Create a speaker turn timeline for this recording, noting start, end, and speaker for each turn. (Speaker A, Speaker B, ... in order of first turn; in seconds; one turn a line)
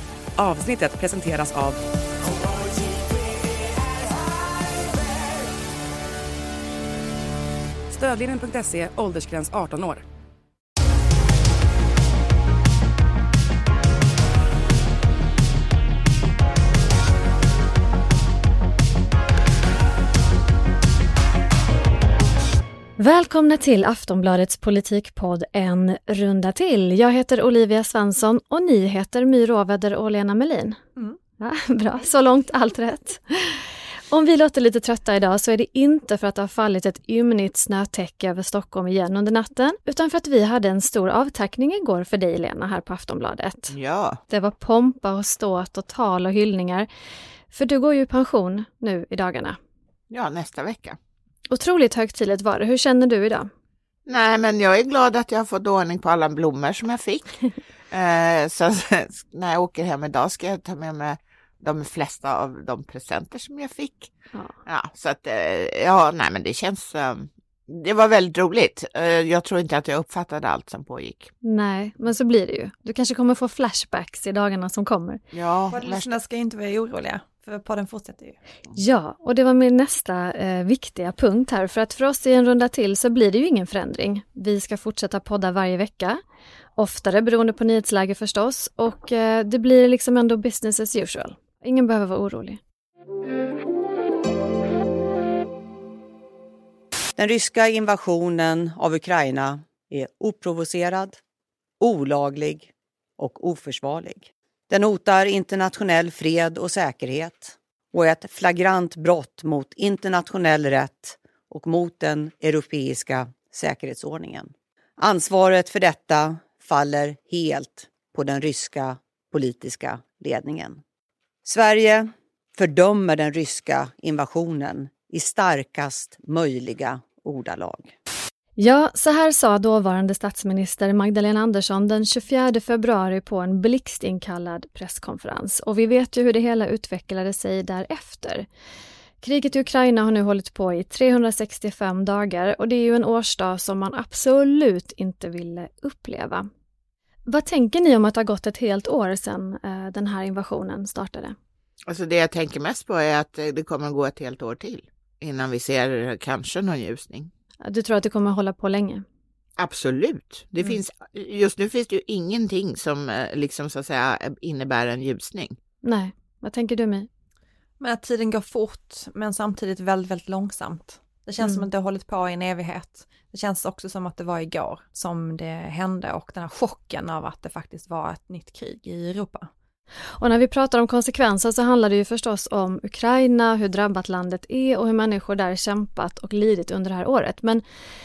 Speaker A: 0.4-1.8
Speaker A: 7.9-10.0
Speaker B: 23.0-30.8
Speaker B: 31.4-43.7
Speaker C: 43.7-44.2
Speaker B: 44.3-46.9
Speaker B: 47.5-49.6
Speaker C: 50.1-51.0
Speaker B: 51.5-53.5
Speaker C: 54.1-57.4
Speaker C: 57.9-64.1
Speaker C: 64.7-71.3
Speaker B: 71.4-75.2
Speaker C: 75.3-76.1
Speaker D: 75.7-78.3
Speaker B: 78.7-86.2
Speaker B: 86.8-92.6
Speaker E: 97.2-101.2
Speaker E: 101.8-120.8
Speaker E: 121.4-127.9
Speaker B: 128.6-138.4
Speaker B: 139.2-146.5
Speaker B: 147.3-151.3
Speaker C: 151.9-157.3
Speaker B: 157.6-159.0
Speaker C: 159.6-165.6
Speaker B: 165.8-167.1
Speaker D: 167.8-179.5
Speaker B: 171.4-171.7
Speaker B: 180.2-187.6